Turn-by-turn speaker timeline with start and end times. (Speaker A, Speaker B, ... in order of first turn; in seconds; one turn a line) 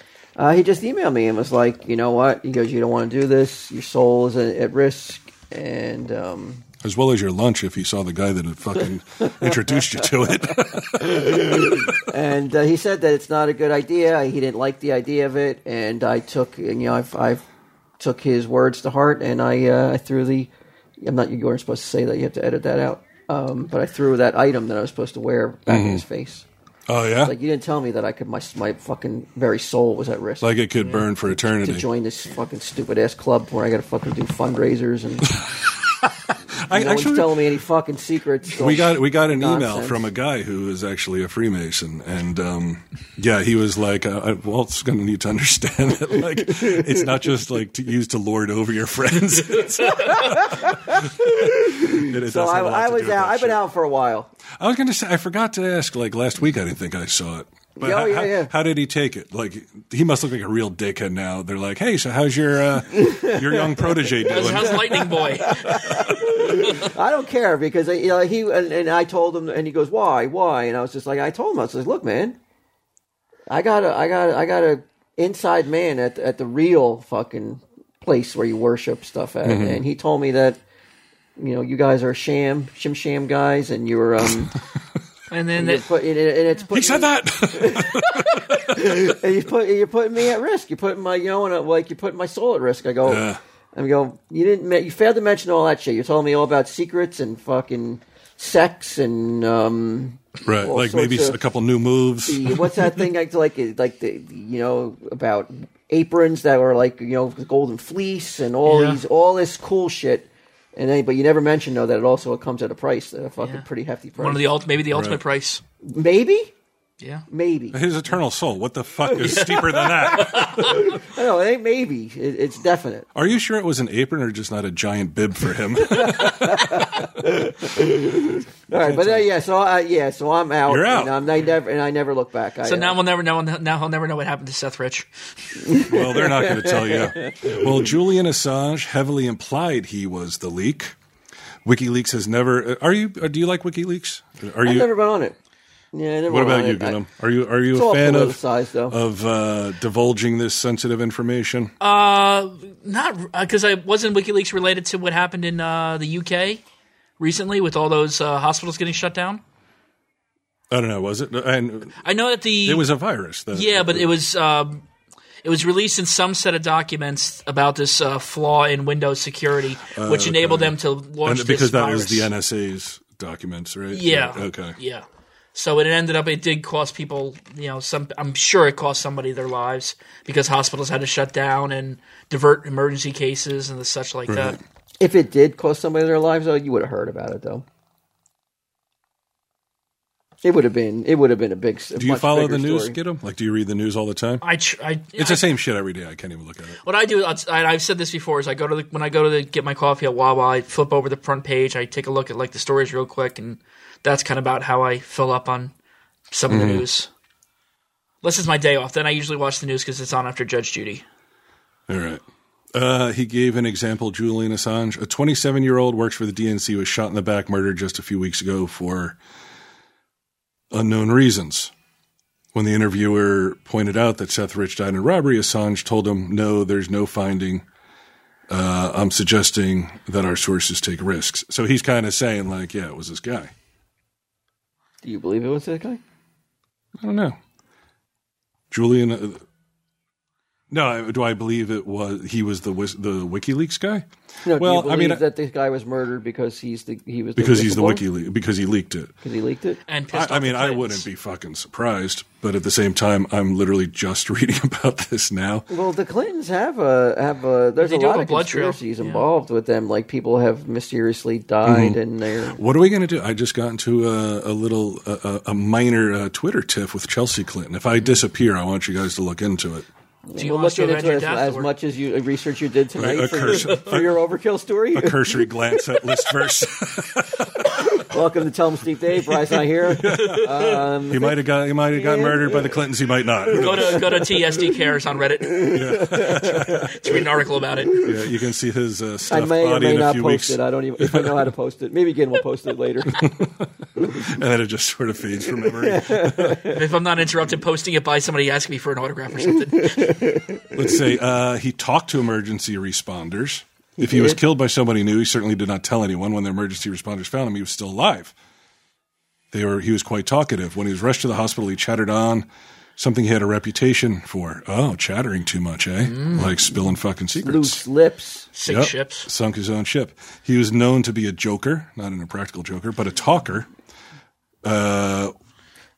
Speaker A: 0.3-6.6
Speaker B: 6.8-12.0
Speaker A: 9.2-10.0
Speaker A: 10.9-17.4
Speaker A: 18.0-26.4
Speaker B: 25.7-26.0
Speaker B: 26.9-27.3
Speaker A: 27.2-35.4
Speaker B: 30.4-31.9
Speaker B: 35.3-37.5
Speaker A: 36.7-40.1
Speaker B: 38.5-53.6
Speaker A: 50.0-54.3
Speaker B: 54.6-65.0
Speaker A: 57.8-58.5
Speaker A: 62.9-72.4
Speaker C: 64.3-66.1
Speaker A: 73.5-80.6
Speaker B: 79.4-79.8
Speaker A: 81.4-84.5
Speaker C: 85.3-85.8
Speaker A: 85.5-101.4
Speaker B: 86.7-89.1
Speaker B: 93.0-93.4
Speaker B: 100.4-102.8
Speaker A: 102.2-114.5
Speaker C: 108.7-109.0
Speaker C: 114.2-115.6
Speaker B: 114.9-115.2
Speaker A: 115.8-116.5
Speaker A: 117.3-117.8
Speaker B: 117.7-120.8
Speaker A: 119.0-123.1
Speaker B: 123.1-127.3
Speaker A: 125.8-133.0
Speaker B: 128.7-129.3
Speaker B: 130.7-131.2
Speaker C: 132.6-135.1
Speaker A: 135.6-137.8
Speaker B: 135.8-140.9
Speaker B: 141.6-144.9
Speaker A: 144.6-145.3
Speaker A: 145.9-147.0
Speaker B: 146.3-151.7
Speaker A: 147.7-149.0
Speaker C: 151.8-156.6
Speaker C: 157.2-159.4
Speaker B: 160.7-162.0
Speaker C: 162.0-162.9
Speaker B: 162.6-164.1
Speaker C: 163.5-164.8
Speaker C: 165.4-172.3
Speaker B: 169.9-174.8
Speaker C: 173.9-184.6
Speaker B: 184.3-184.6
Speaker A: 185.0-187.6
Speaker A: 190.4-193.0
Speaker B: 191.9-194.4
Speaker C: 194.4-195.4
Speaker B: 195.2-196.8
Speaker C: 196.8-205.7
Speaker C: 206.3-207.1
Speaker B: 206.5-206.8
Speaker C: 208.2-211.0
Speaker B: 211.9-219.2
Speaker B: 220.7-221.7
Speaker B: 222.5-227.6
Speaker B: 228.5-233.5
Speaker A: 235.0-236.0
Speaker B: 237.0-237.4
Speaker B: 238.7-239.4
Speaker B: 240.7-245.2
Speaker A: 244.4-248.0
Speaker B: 247.3-249.1
Speaker A: 249.2-249.8
Speaker C: 249.9-251.1
Speaker B: 250.1-255.7
Speaker A: 255.7-262.6
Speaker C: 257.8-259.3
Speaker B: 261.6-262.0
Speaker B: 262.5-269.9
Speaker A: 270.3-276.0
Speaker C: 270.4-271.7
Speaker B: 272.9-274.2
Speaker B: 274.9-277.8
Speaker A: 277.7-281.4
Speaker B: 279.8-284.2
Speaker A: 281.9-282.8
Speaker C: 283.5-288.0
Speaker A: 283.5-284.8
Speaker A: 285.6-286.9
Speaker B: 285.7-286.9
Speaker A: 287.7-288.1
Speaker B: 288.0-291.5
Speaker A: 289.3-293.2
Speaker B: 293.1-296.6
Speaker A: 295.7-296.8
Speaker C: 296.6-300.3
Speaker A: 300.0-300.8
Speaker B: 300.7-308.3
Speaker A: 304.0-304.4
Speaker B: 309.5-312.4
Speaker B: 313.0-317.8
Speaker C: 316.1-316.5
Speaker A: 317.4-318.5
Speaker C: 318.5-319.3
Speaker B: 318.6-323.7
Speaker B: 324.6-325.3